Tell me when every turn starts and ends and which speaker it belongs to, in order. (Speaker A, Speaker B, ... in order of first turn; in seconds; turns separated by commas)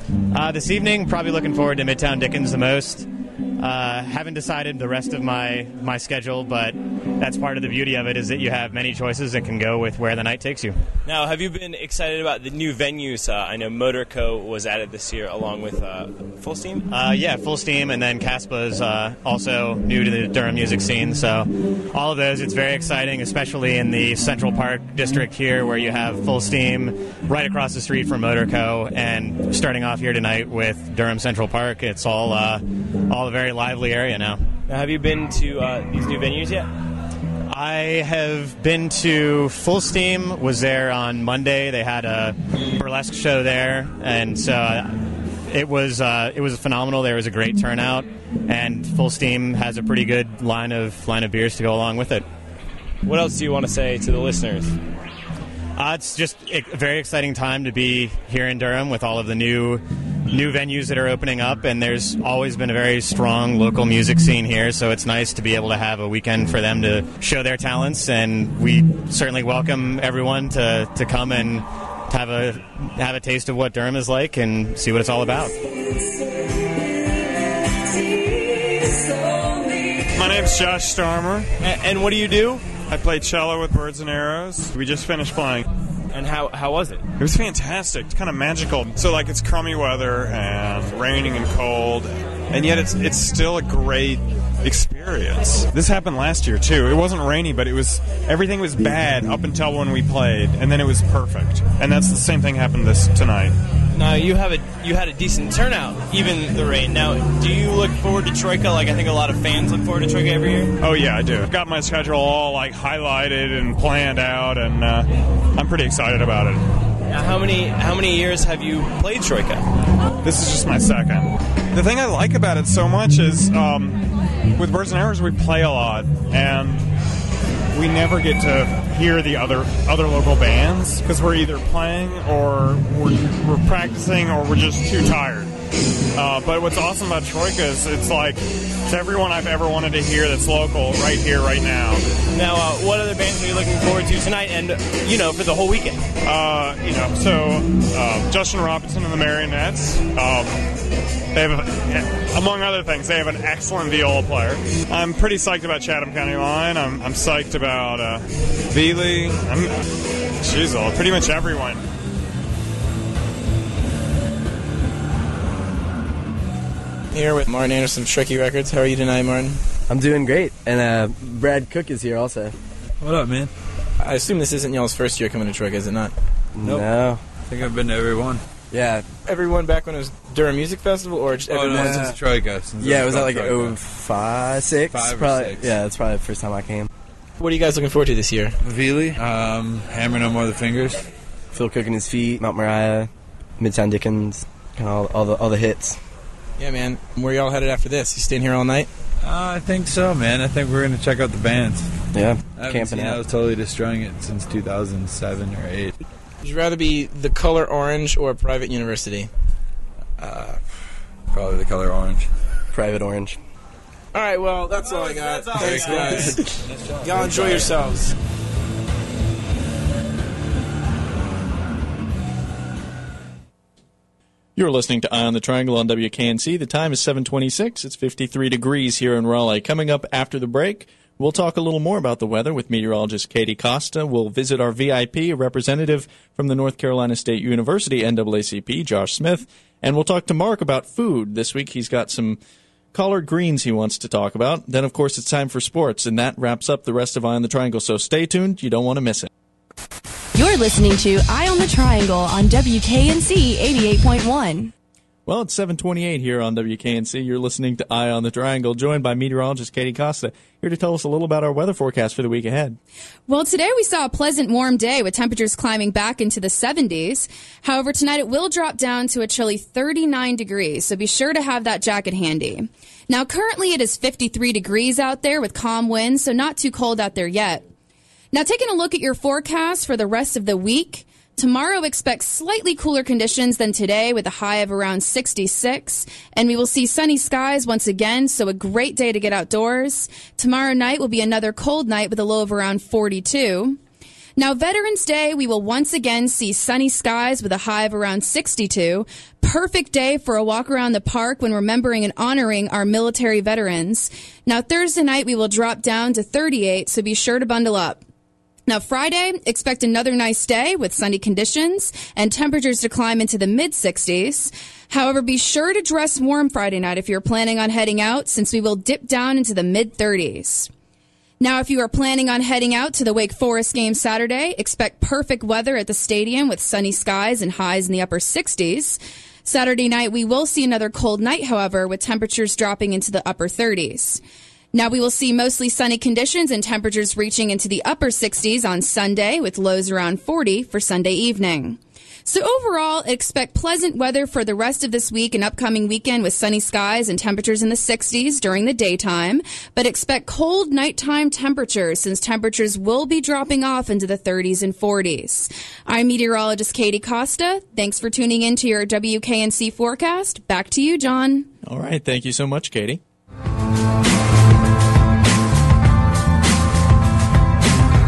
Speaker A: 0.3-10.8, Speaker B: 11.1-16.9, Speaker A: 16.9-34.4, Speaker B: 34.7-36.7, Speaker A: 37.5-52.2, Speaker B: 53.0-54.8, Speaker A: 55.8-75.5, Speaker C: 80.1-81.5, Speaker B: 81.6-82.7, Speaker C: 82.9-85.6, Speaker B: 86.1-87.0, Speaker C: 87.2-103.6, Speaker B: 103.9-110.7, Speaker C: 110.8-116.6, Speaker B: 117.1-119.7, Speaker C: 120.2-124.0, Speaker C: 124.5-126.9, Speaker C: 127.7-135.5, Speaker C: 136.2-142.1, Speaker B: 142.3-146.0, Speaker C: 146.2-150.6, Speaker C: 151.3-159.7, Speaker C: 160.4-161.8, Speaker D: 167.1-169.6, Speaker E: 169.9-172.5, Speaker F: 173.0-173.5, Speaker D: 174.0-176.1, Speaker E: 176.6-177.2, Speaker F: 176.6-178.4, Speaker E: 178.7-179.1, Speaker D: 179.2-182.1, Speaker F: 181.5-183.8, Speaker E: 181.8-182.2, Speaker E: 182.8-186.9, Speaker F: 184.8-185.8, Speaker D: 187.4-188.6, Speaker F: 188.6-191.0, Speaker E: 191.5-195.9, Speaker D: 196.6-198.9, Speaker F: 199.2-201.9, Speaker E: 202.1-203.2, Speaker F: 202.5-205.9, Speaker D: 206.4-209.3, Speaker F: 210.2-210.6, Speaker F: 211.3-212.2, Speaker E: 212.7-213.4, Speaker D: 214.1-216.4, Speaker F: 214.8-217.7, Speaker B: 215.1-216.3, Speaker D: 217.0-218.1, Speaker G: 224.6-242.4, Speaker G: 242.9-249.3, Speaker H: 250.3-254.7, Speaker G: 255.2-262.8, Speaker I: 263.3-277.6, Speaker I: 278.3-293.8, Speaker I: 294.4-308.0, Speaker I: 308.7-320.7, Speaker I: 321.4-334.2, Speaker I: 334.7-361.5, Speaker G: 361.6-363.0